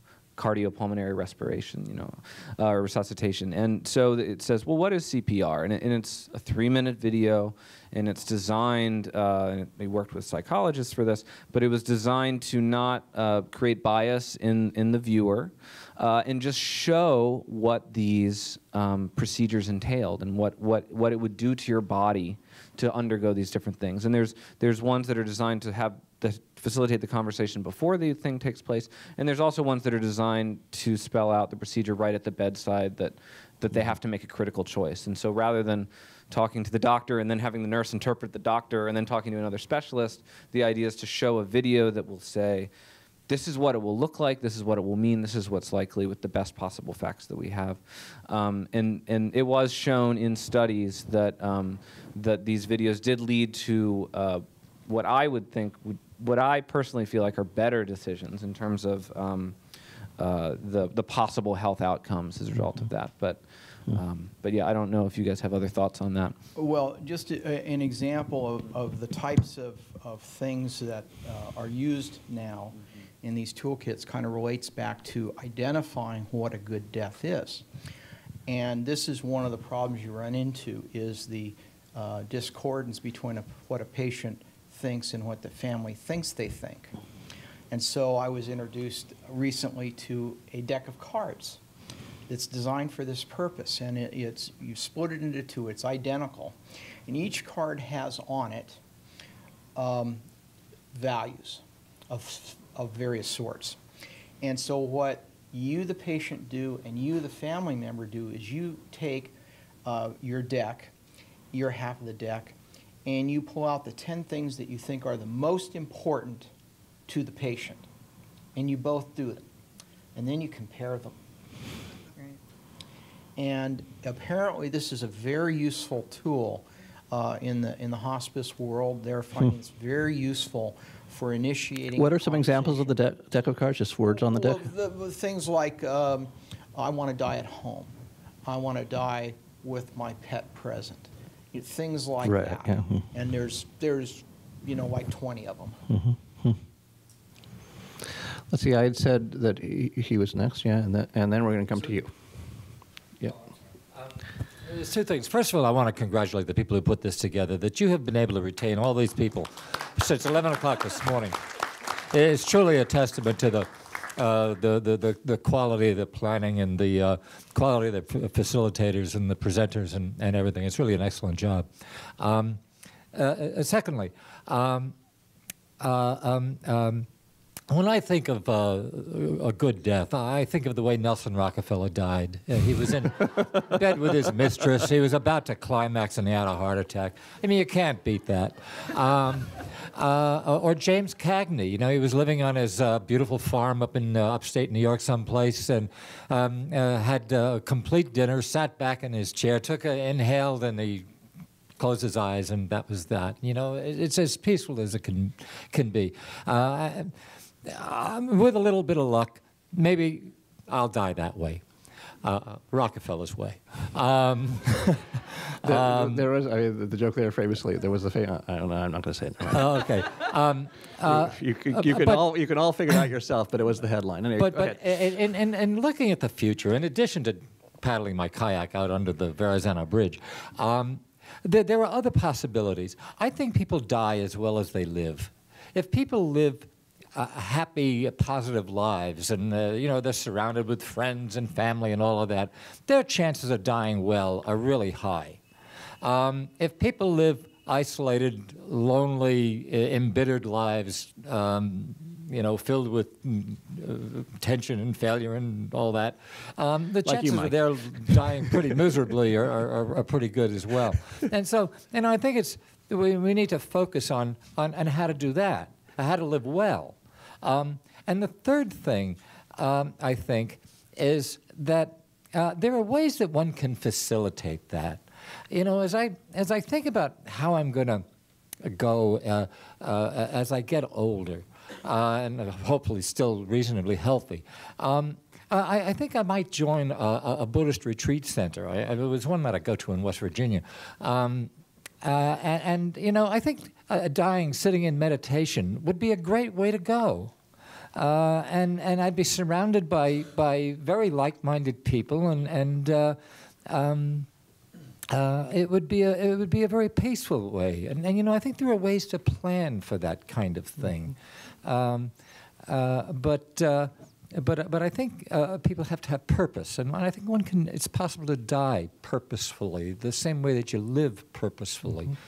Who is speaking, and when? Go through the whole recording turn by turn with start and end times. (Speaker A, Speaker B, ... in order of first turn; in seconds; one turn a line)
Speaker A: 0.3-42.7
Speaker A: 43.3-59.5
Speaker A: 60.2-66.3
Speaker B: 66.5-77.6
Speaker B: 78.5-86.9
Speaker B: 87.7-91.6
Speaker B: 92.3-98.8
Speaker B: 99.7-100.2
Speaker B: 100.9-103.8
Speaker B: 104.4-110.9
Speaker B: 111.5-116.5
Speaker B: 117.1-117.9
Speaker B: 118.5-119.4
Speaker B: 120.1-121.2
Speaker B: 123.4-133.0
Speaker C: 131.9-134.7
Speaker B: 134.1-137.9
Speaker B: 138.4-145.8
Speaker C: 142.2-143.1
Speaker C: 145.9-146.6
Speaker C: 148.5-152.1
Speaker D: 154.6-161.4
Speaker D: 162.1-172.6
Speaker D: 173.1-174.9
Speaker D: 175.8-177.1
Speaker D: 177.7-201.1
Speaker D: 201.8-207.1
Speaker D: 207.6-211.6
Speaker D: 212.2-216.2
Speaker C: 215.6-220.1
Speaker D: 219.5-222.3
Speaker C: 221.0-224.9
Speaker D: 224.4-245.4
Speaker D: 246.0-278.1
Speaker C: 257.0-258.8
Speaker D: 278.6-297.3
Speaker D: 297.9-304.3
Speaker D: 305.1-312.1
Speaker D: 312.6-322.1